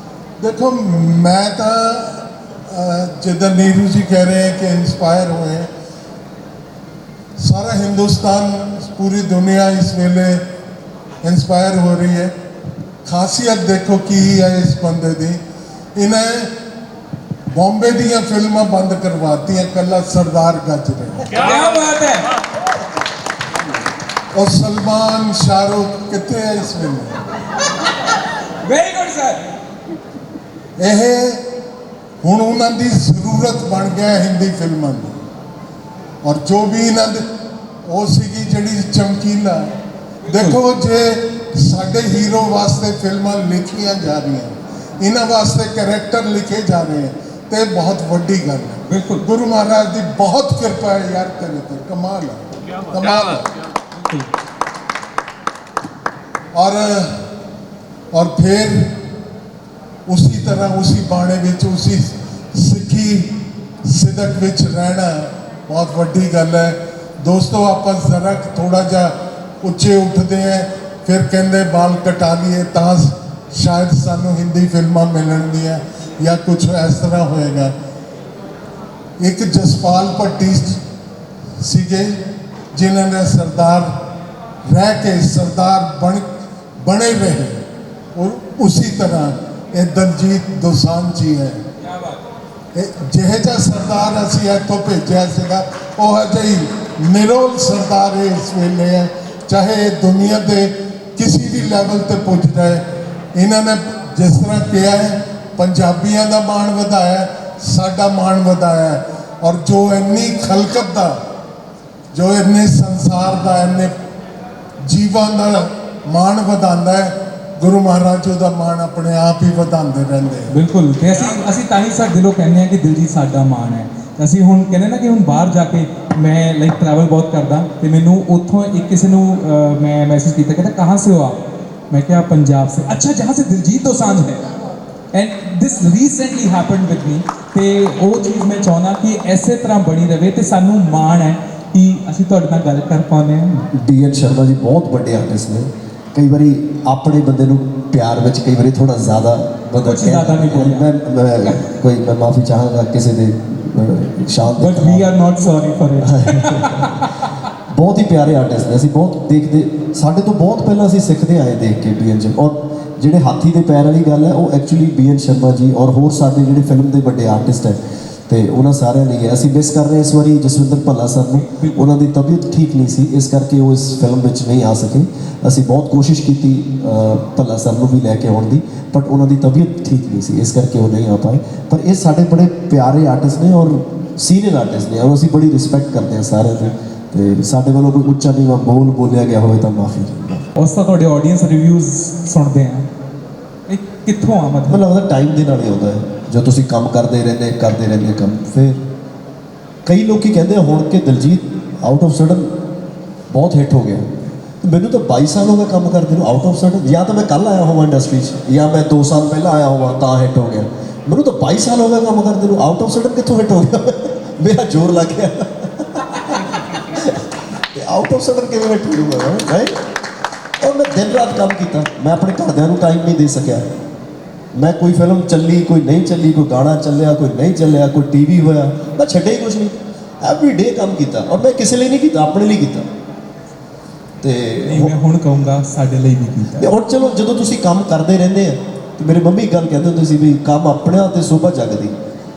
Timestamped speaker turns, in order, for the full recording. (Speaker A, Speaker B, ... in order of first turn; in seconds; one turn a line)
Speaker A: 0.4-5.7
Speaker A: 7.4-10.4
Speaker A: 11.2-12.3
Speaker A: 13.1-15.4
Speaker A: 15.9-16.5
Speaker A: 17.5-21.3
Speaker B: 21.3-22.3
Speaker A: 24.3-27.2
Speaker B: 28.6-29.5
Speaker A: 30.8-31.4
Speaker A: 32.2-35.2
Speaker A: 36.2-37.2
Speaker A: 37.8-39.8
Speaker B: 40.2-40.6
Speaker A: 40.3-53.5
Speaker B: 48.9-49.2
Speaker B: 54.0-54.3
Speaker A: 56.5-57.3
Speaker A: 58.1-59.0
Speaker A: 60.1-77.7
Speaker A: 79.2-80.8
Speaker A: 81.6-84.0
Speaker A: 84.7-86.2
Speaker A: 86.8-91.6
Speaker B: 91.8-92.2
Speaker A: 92.7-111.2
Speaker A: 112.1-113.9
Speaker A: 114.8-120.5
Speaker B: 120.5-134.5
Speaker B: 135.1-143.6
Speaker C: 143.7-155.1
Speaker B: 149.8-150.9
Speaker B: 154.4-157.3
Speaker C: 156.0-157.1
Speaker C: 157.7-190.5
Speaker B: 171.3-171.9
Speaker B: 190.6-192.9
Speaker B: 193.7-194.8
Speaker C: 194.7-198.8
Speaker C: 199.8-202.5
Speaker C: 203.3-204.1
Speaker C: 204.6-219.8
Speaker C: 220.6-223.7
Speaker C: 224.5-232.9
Speaker C: 234.2-234.9
Speaker B: 234.6-236.7
Speaker C: 236.5-242.0